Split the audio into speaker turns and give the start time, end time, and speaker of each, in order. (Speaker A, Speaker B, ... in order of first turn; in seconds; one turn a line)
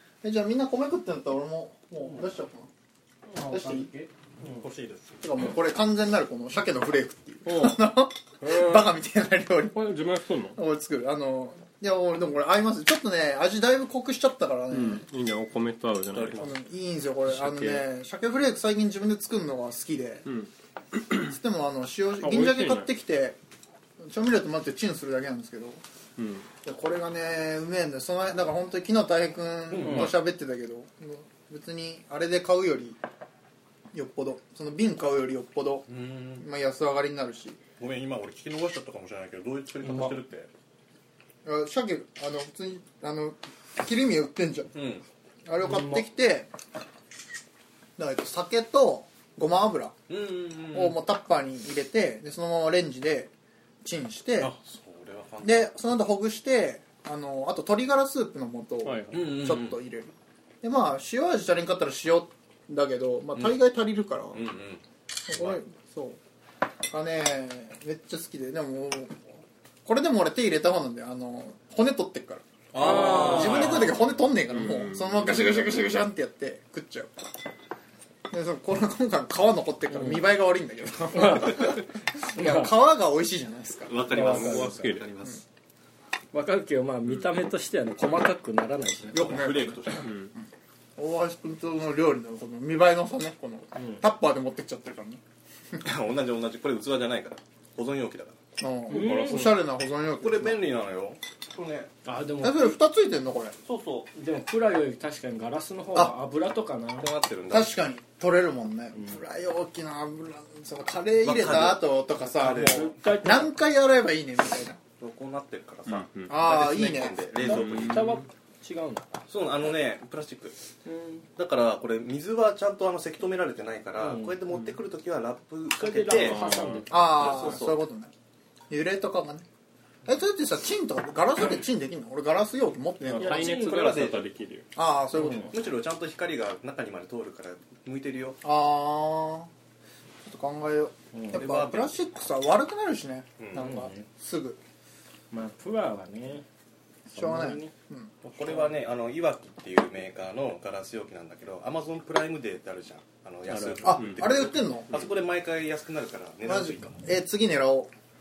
Speaker A: 0.2-2.7
Speaker B: 3.3-4.6
Speaker A: 3.4-3.9
Speaker C: 4.5-5.1
Speaker A: 5.2-9.8
Speaker D: 7.5-7.8
Speaker D: 8.4-8.9
Speaker D: 9.7-10.6
Speaker A: 10.5-15.1
Speaker D: 14.7-16.4
Speaker C: 16.1-16.5
Speaker A: 16.4-20.2
Speaker D: 17.4-17.8
Speaker D: 20.3-21.3
Speaker A: 21.1-23.4
Speaker D: 22.2-22.9
Speaker A: 24.0-25.8
Speaker D: 26.2-26.5
Speaker A: 26.6-33.0
Speaker C: 29.7-30.2
Speaker A: 33.9-35.9
Speaker C: 35.9-36.5
Speaker A: 36.4-37.6
Speaker C: 37.8-40.5
Speaker B: 39.8-40.2
Speaker A: 41.5-44.7
Speaker C: 44.7-45.0
Speaker A: 45.5-46.5
Speaker B: 45.6-46.1
Speaker A: 48.0-49.9
Speaker C: 50.1-51.0
Speaker A: 50.7-53.3
Speaker A: 53.8-54.5
Speaker C: 54.4-55.7
Speaker A: 55.4-64.4
Speaker D: 58.8-59.2
Speaker C: 59.1-59.8
Speaker C: 64.3-65.6
Speaker A: 65.3-66.2
Speaker A: 66.9-77.2
Speaker C: 72.7-74.1
Speaker B: 72.8-73.6
Speaker D: 73.5-73.8
Speaker D: 74.5-75.8
Speaker A: 78.3-84.1
Speaker B: 79.9-80.3
Speaker B: 81.1-82.7
Speaker C: 83.9-85.4
Speaker D: 84.0-85.0
Speaker B: 84.1-84.9
Speaker B: 86.3-89.6
Speaker C: 89.1-90.1
Speaker D: 90.0-90.3
Speaker A: 91.0-95.2
Speaker C: 95.8-98.4
Speaker A: 98.6-100.6
Speaker D: 98.9-99.6
Speaker B: 98.9-99.5
Speaker C: 100.2-101.9
Speaker B: 102.0-102.8
Speaker A: 102.4-103.6
Speaker C: 103.6-104.1
Speaker B: 104.1-107.1
Speaker C: 107.0-107.8
Speaker A: 107.5-114.8
Speaker C: 111.2-112.9
Speaker B: 112.5-113.5
Speaker C: 115.0-118.1
Speaker D: 115.9-116.3
Speaker A: 116.3-117.3
Speaker B: 117.4-119.1
Speaker D: 117.4-118.3
Speaker C: 119.3-120.6
Speaker B: 120.9-121.3
Speaker C: 121.4-127.8
Speaker B: 124.0-124.4
Speaker B: 125.8-127.6
Speaker D: 126.1-126.9
Speaker A: 126.9-128.1
Speaker A: 128.7-129.5
Speaker A: 130.1-133.5
Speaker C: 133.1-134.3
Speaker D: 133.1-134.7
Speaker B: 133.2-134.1
Speaker A: 134.8-135.5
Speaker B: 135.2-135.5
Speaker C: 135.4-138.4
Speaker A: 138.4-139.5
Speaker A: 140.2-144.6
Speaker B: 141.1-141.4
Speaker C: 141.3-142.0
Speaker C: 143.4-143.7
Speaker B: 143.6-144.1
Speaker B: 145.3-146.5
Speaker A: 147.1-148.1
Speaker B: 147.1-147.7
Speaker C: 148.2-157.0
Speaker A: 153.8-154.9
Speaker D: 153.8-154.2
Speaker A: 156.4-157.9